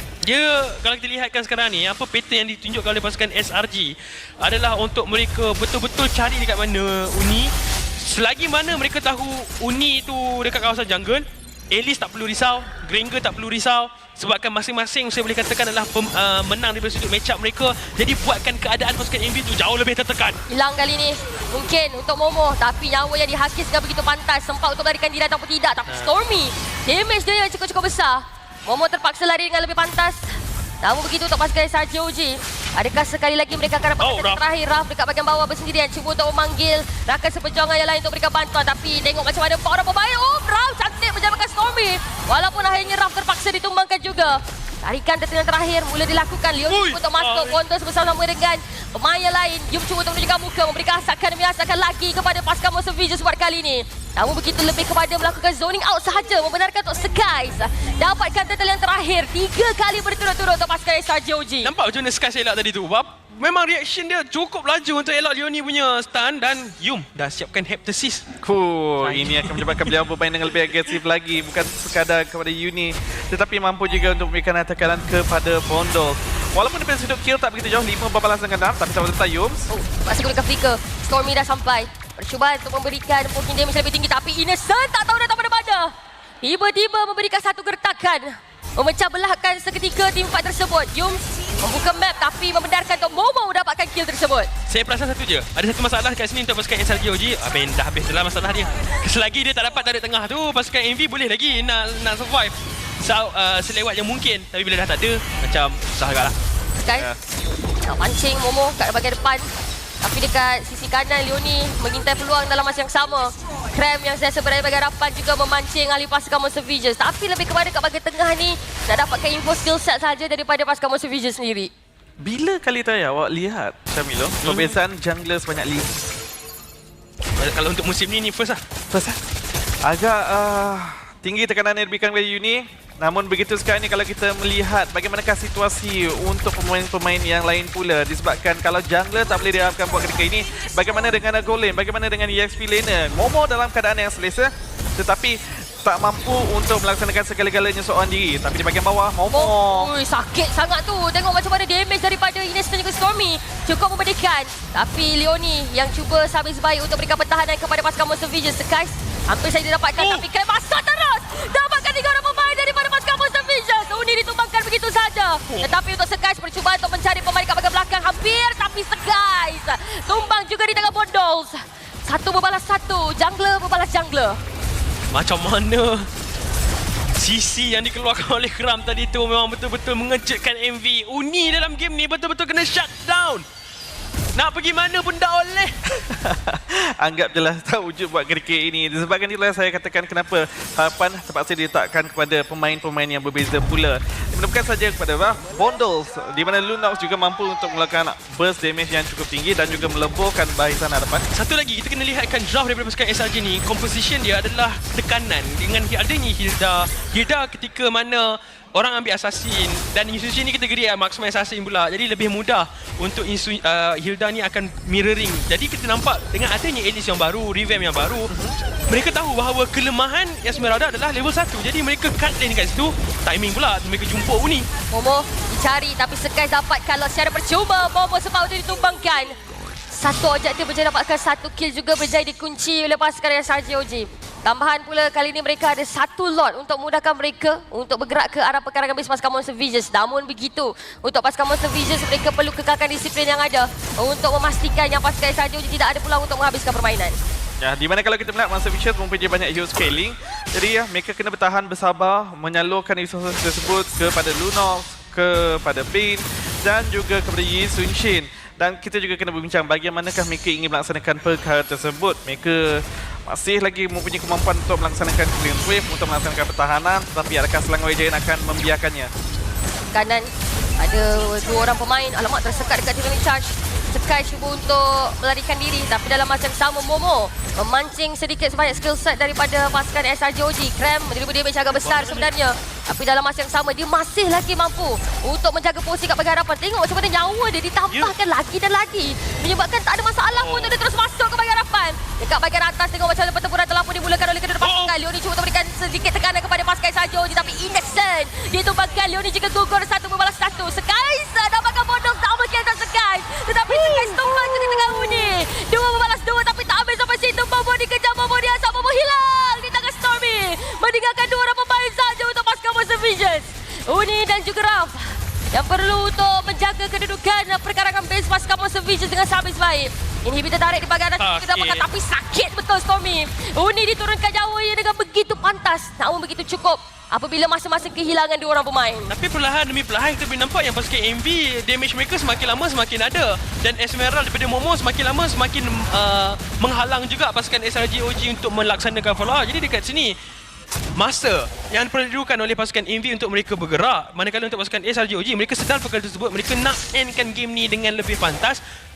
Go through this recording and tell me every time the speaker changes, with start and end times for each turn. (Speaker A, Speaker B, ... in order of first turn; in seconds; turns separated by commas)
Speaker A: 0.2-20.4, Speaker B: 20.5-61.7, Speaker A: 25.9-26.1, Speaker A: 34.0-34.4, Speaker A: 46.7-47.6, Speaker A: 61.6-68.3, Speaker C: 68.4-79.7, Speaker A: 69.0-70.0, Speaker B: 79.7-94.5, Speaker A: 94.7-106.3, Speaker B: 106.8-107.1, Speaker B: 107.8-109.5, Speaker B: 110.0-121.7, Speaker C: 122.2-126.0, Speaker A: 124.4-124.8, Speaker A: 127.4-128.6, Speaker C: 128.9-129.2, Speaker C: 129.8-149.9, Speaker B: 149.3-174.4, Speaker A: 160.0-160.3, Speaker A: 175.1-176.1, Speaker A: 177.1-183.5, Speaker A: 184.3-185.8, Speaker C: 186.1-201.3, Speaker A: 201.3-218.3, Speaker C: 218.3-218.6, Speaker A: 218.9-224.7, Speaker B: 224.9-229.4, Speaker B: 229.9-247.2, Speaker C: 247.6-269.1, Speaker B: 269.9-329.1, Speaker A: 281.8-282.3, Speaker A: 290.3-290.8, Speaker A: 294.6-294.9, Speaker A: 303.7-304.2, Speaker A: 321.2-321.9, Speaker A: 329.1-340.2, Speaker A: 341.0-348.6